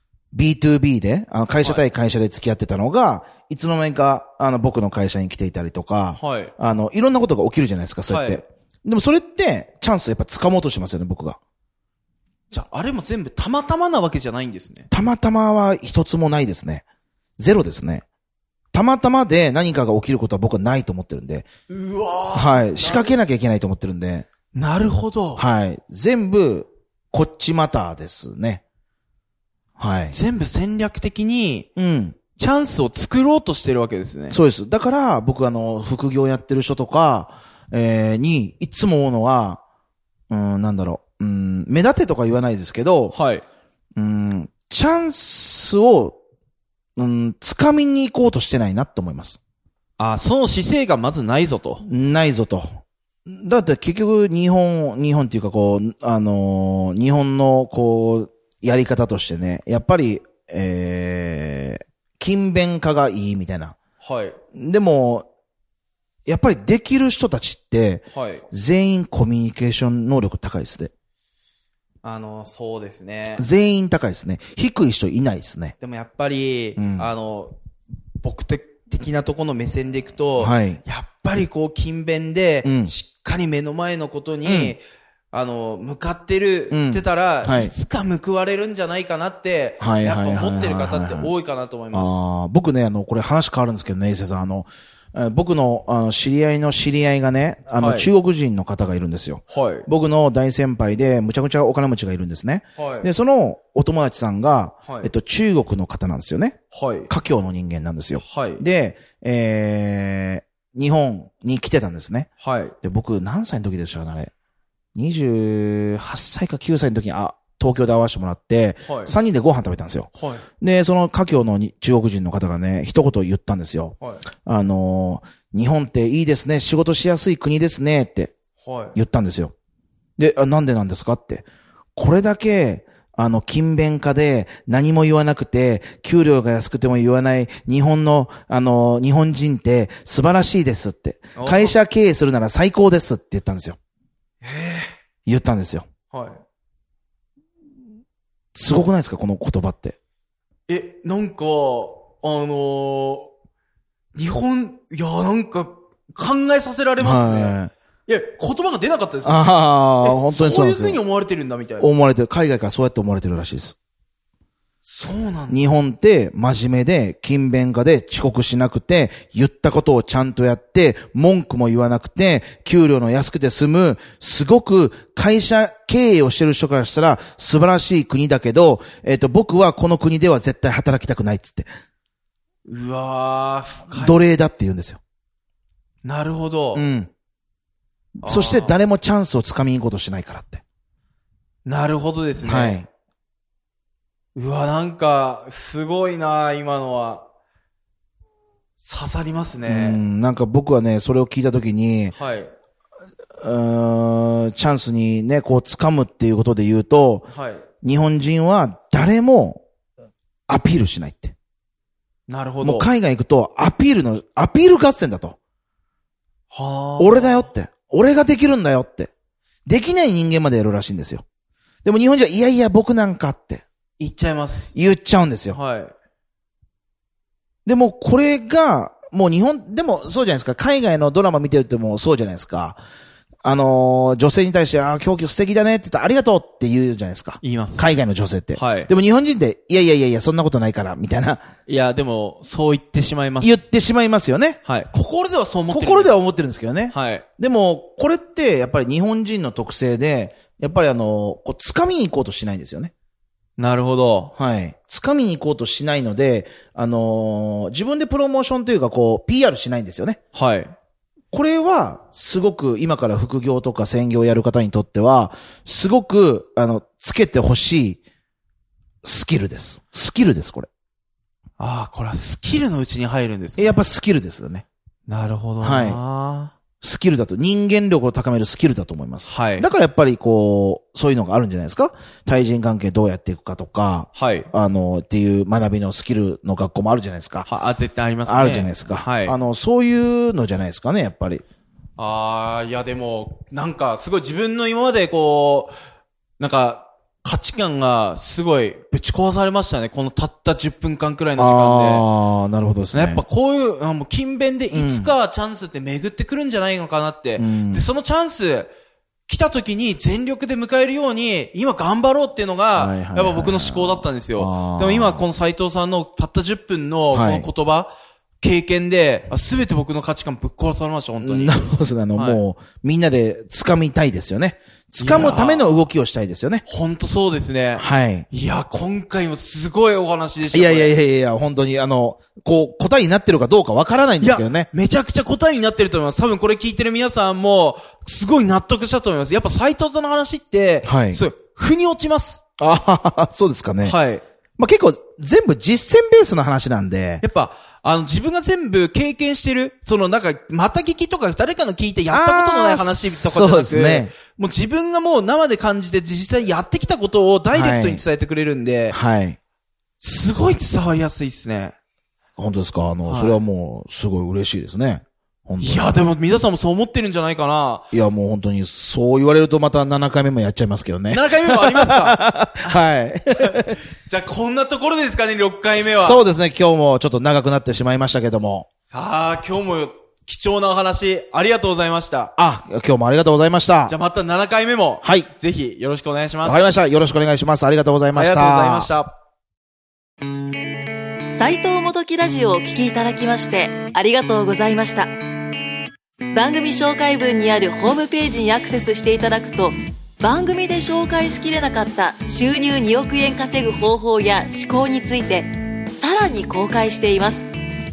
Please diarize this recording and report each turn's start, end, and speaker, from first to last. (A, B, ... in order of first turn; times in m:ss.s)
0:00.3-0:11.4 A
0:06.2-0:06.5 B
0:08.1-0:08.4 B
0:12.5-0:14.9 B
0:14.9-0:16.8 A
0:17.4-0:18.0 A
0:18.7-0:21.5 A
0:21.7-0:23.1 B
0:22.3-0:24.3 A
0:24.5-0:25.4 B
0:25.4-0:28.6 A
0:29.8-0:30.1 A
0:30.1-0:31.7 B
0:31.8-0:32.2 A
0:32.4-0:34.4 B
0:34.3-0:39.6 A
0:40.3-0:43.2 A
0:43.1-0:43.4 B
0:44.0-0:46.2 A
0:47.0-0:49.4 A
0:50.0-0:51.8 B
0:51.8-1:03.8 A
1:04.0-1:04.4 B
1:04.5-1:05.3 A
1:06.2-1:10.9 A
1:08.1-1:08.4 B
1:12.0-1:13.4 B
1:13.4-1:15.8 A
1:15.8-1:17.5 B
1:16.8-1:17.1 A
1:18.2-1:32.2 B
1:20.4-1:20.8 A
1:22.6-1:22.9 A
1:24.4-1:24.8 A
1:26.7-1:27.7 A
1:29.8-1:31.3 A
1:31.9-1:52.3 A
1:37.8-1:38.1 B
1:39.5-1:39.9 B
1:42.8-1:43.1 B
1:44.9-1:45.1 B
1:46.7-1:47.1 B
1:48.2-1:48.6 B
1:52.4-1:52.8 B
1:52.8-1:54.3 A
1:55.0-2:08.3 A
1:58.8-1:59.1 B
2:00.2-2:00.5 B
2:08.6-2:09.0 B
2:09.0-2:09.5 A
2:10.2-2:23.8 A
2:21.3-2:21.8 B
2:24.4-2:24.9 B
2:25.2-2:25.9 A
2:26.1-2:26.4 B
2:28.5-2:30.0 A
2:30.7-2:33.3 B
2:34.2-2:39.4 B
2:37.0-2:37.7 A
2:39.2-2:41.0 A
2:40.0-2:41.9 B
2:41.8-2:43.8 A
2:44.8-2:45.6 B
2:45.5-3:01.7 A
3:02.7-3:04.2 B
3:03.9-3:05.0 A
3:06.0-3:06.8 B
3:06.7-3:07.1 A
3:08.2-3:10.6 A
3:08.2-3:08.8 B
3:11.7-3:12.8 B
3:12.4-3:12.9 A
3:14.3-3:17.2 B
3:18.8-3:20.0 B
3:19.7-3:22.2 A
3:22.1-3:22.5 B
3:23.4-3:27.3 A
3:27.3-3:27.6 B
3:27.8-3:29.6 A
3:30.5-3:31.3 A
3:32.3-3:32.9 B
3:32.6-3:35.4 A
3:36.5-3:37.5 B
3:37.0-3:39.1 A
3:39.7-3:41.2 A
3:41.8-3:43.6 A
3:44.0-3:44.8 B
3:44.8-3:45.6 A
3:45.5-3:45.9 B
3:47.6-3:52.8 A
3:53.4-4:01.4 A
3:57.4-3:57.9 B
3:58.5-3:58.9 B
4:01.7-4:03.6 B
4:03.4-4:04.6 A
4:04.6-4:06.1 B
4:05.7-4:12.9 A
4:06.9-4:07.2 B
4:13.6-4:14.3 B
4:14.4-4:20.2 A
4:20.3-4:20.7 B
4:21.3-4:28.0 A
4:29.0-4:30.7 A
4:31.6-4:33.8 B
4:33.6-4:34.6 A
4:35.1-4:36.5 B
4:35.6-4:36.0 A
4:36.8-4:47.5 A
4:39.3-4:39.7 B
4:44.2-4:44.5 B
4:47.4-4:49.3 B
4:48.3-4:51.4 A
4:52.0-4:55.7 B
4:56.4-5:02.1 B
5:01.4-5:03.2 A
5:02.9-5:08.7 B
5:04.7-5:05.1 A
5:07.4-5:07.8 A
5:09.3-5:22.4 B
5:12.8-5:15.2 A
5:17.1-5:17.5 A
5:21.2-5:26.6 A
5:25.0-5:25.9 B
5:26.7-5:31.0 B
5:27.8-5:28.3 A
5:30.5-5:34.7 A
5:34.2-5:42.4 B
5:40.8-5:41.2 A
5:42.6-5:44.0 A
5:43.8-5:44.2 B
5:44.6-5:47.2 A
5:47.2-5:59.0 B
5:52.1-5:54.1 A
5:57.5-5:58.0 A
5:58.9-5:59.4 A
6:00.0-6:01.8 B
6:02.4-6:05.9 A
6:03.0-6:03.4 B
6:05.6-6:07.9 B
6:07.9-6:13.8 A
6:11.1-6:12.7 B
6:13.3-6:16.2 B
6:15.8-6:18.7 A
6:18.9-6:22.3 B
6:22.4-6:24.0 A
6:23.9-6:26.7 B
6:25.0-6:25.3 A
6:26.4-6:28.9 A
6:28.1-6:29.1 B
6:31.3-6:35.1 C
6:36.3-6:47.5 C